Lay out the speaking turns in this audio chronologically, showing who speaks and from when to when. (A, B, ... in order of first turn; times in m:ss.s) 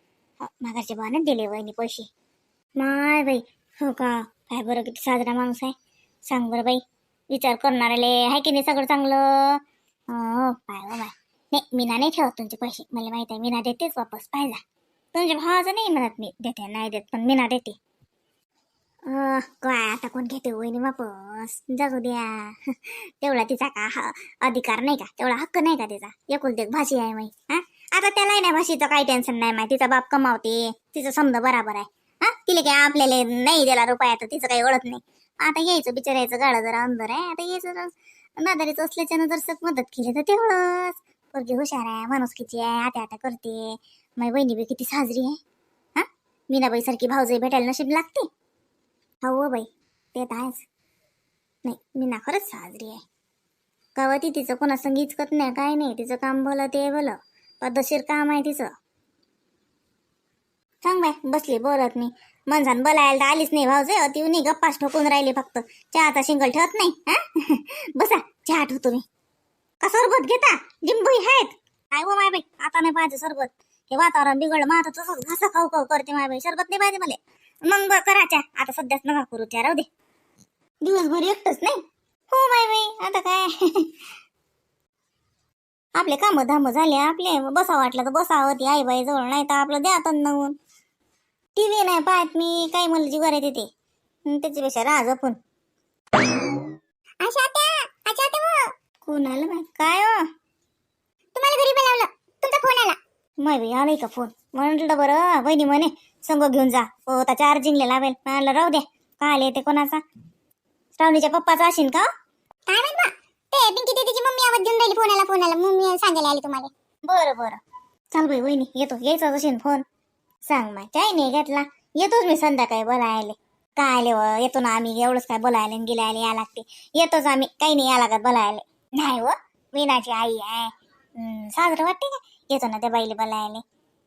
0:00.4-0:02.1 A
0:02.8-0:05.8 A
0:06.3-0:14.6 A
0:15.1-0:17.8 A
0:19.1-0:45.4 A
0:46.0-0:48.3 A
0:49.2-0:50.6 A
0:51.6-0:53.0 A
0:54.0-0:58.7 A
1:00.8-1:09.0 A
1:09.8-1:19.9 A
1:20.8-1:21.8 A
1:22.3-1:24.0 A
1:26.0-1:30.6 A
1:31.6-1:33.7 A
1:34.3-1:35.4 A
1:37.2-1:38.6 B
1:39.0-1:40.2 A
1:41.4-1:43.0 B
1:43.4-1:50.0 A
1:51.0-1:52.1 A
1:52.7-1:56.7 B
1:57.1-1:57.6 A
1:58.1-1:59.8 A
2:00.5-2:13.6 A